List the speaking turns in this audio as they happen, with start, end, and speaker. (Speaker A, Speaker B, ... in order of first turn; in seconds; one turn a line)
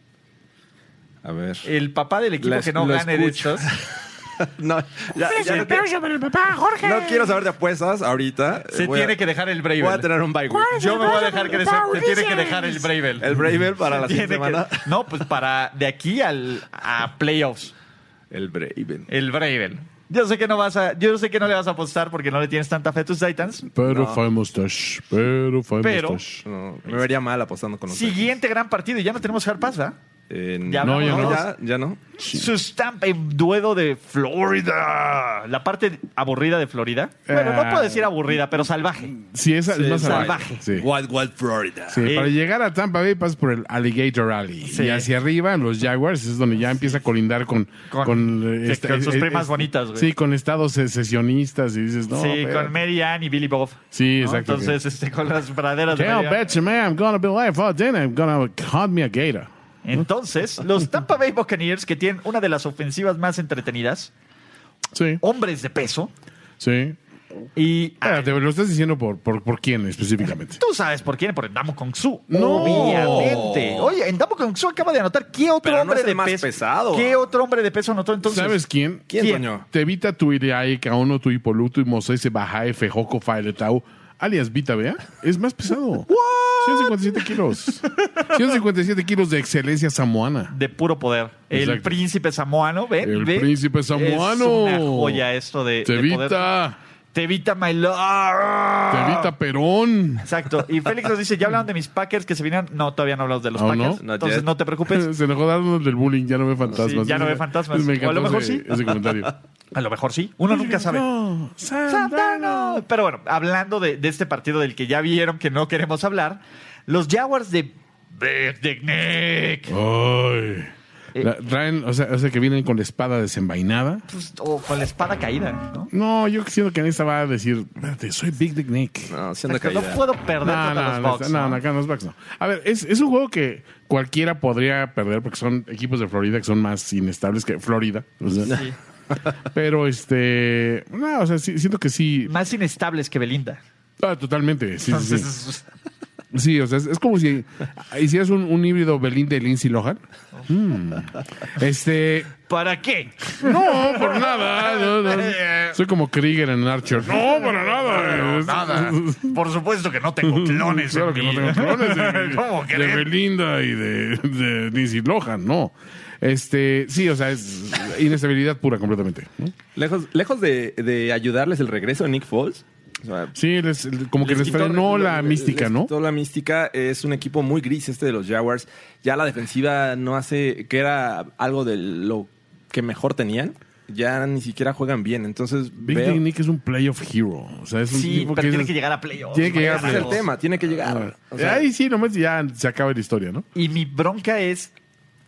Speaker A: 1.2-1.6
Speaker B: 1.6-3.7
Speaker A: 2.4-5.8
Speaker C: 5.3-7.3
Speaker B: 5.3-5.8
Speaker A: 6.8-9.2
Speaker B: 8.7-10.1
Speaker A: 9.8-11.3
Speaker C: 10.5-12.9
Speaker B: 10.7-13.3
Speaker A: 13.2-14.9
Speaker B: 13.8-17.7
Speaker A: 18.3-19.1
Speaker B: 19.1-23.7
Speaker C: 23.7-26.4
Speaker A: 23.8-24.2
Speaker B: 25.8-26.2
Speaker A: 26.4-28.3
Speaker B: 27.9-30.0
Speaker A: 30.3-32.0
Speaker B: 30.6-31.4
Speaker C: 30.8-31.4
Speaker B: 32.2-39.1
Speaker C: 37.3-38.3
Speaker C: 39.0-40.9
Speaker A: 39.7-42.1
Speaker B: 40.0-40.6
Speaker C: 41.9-52.7
Speaker B: 42.0-42.3
Speaker B: 44.7-45.1
Speaker B: 47.9-50.1
Speaker B: 52.1-56.4
Speaker C: 53.9-54.8
Speaker C: 55.9-60.0
Speaker B: 59.8-64.1
Speaker C: 64.9-65.2
Speaker B: 65.2-66.1
Speaker C: 66.6-67.0
Speaker B: 67.5-68.3
Speaker C: 68.0-70.6
Speaker B: 70.6-78.6
Speaker C: 72.3-73.5
Speaker A: 72.4-73.9
Speaker A: 75.6-77.3
Speaker C: 78.2-86.1
Speaker A: 79.1-79.7
Speaker B: 79.2-79.4
Speaker B: 86.1-87.0
Speaker C: 86.6-90.5
Speaker B: 90.5-96.5
Speaker C: 91.5-92.0
Speaker C: 93.0-95.2
Speaker C: 95.8-96.8
Speaker B: 97.1-99.3
Speaker C: 98.9-100.3
Speaker B: 100.2-105.1
Speaker C: 103.5-104.0
Speaker A: 104.0-104.5
Speaker C: 104.9-109.3
Speaker B: 106.8-108.7
Speaker B: 109.7-111.0
Speaker C: 110.5-112.8
Speaker B: 111.9-119.7
Speaker C: 119.7-124.0
Speaker B: 124.1-125.9
Speaker C: 125.9-129.1
Speaker A: 129.1-130.0
Speaker B: 129.5-131.6
Speaker C: 130.4-138.6
Speaker B: 138.4-138.7
Speaker C: 139.5-142.3
Speaker B: 142.2-143.6
Speaker C: 144.0-145.3
Speaker B: 144.9-145.6
Speaker C: 146.3-152.3
Speaker B: 152.5-155.8
Speaker C: 153.4-159.4
Speaker B: 157.3-163.1
Speaker C: 160.2-169.5
Speaker A: 169.8-173.3
Speaker C: 173.3-175.9
Speaker A: 174.2-186.2
Speaker B: 174.3-174.7
Speaker C: 185.8-188.7
Speaker B: 187.9-190.2
Speaker C: 189.3-190.2
Speaker A: 189.4-191.6
Speaker C: 190.8-193.4
Speaker B: 193.5-194.7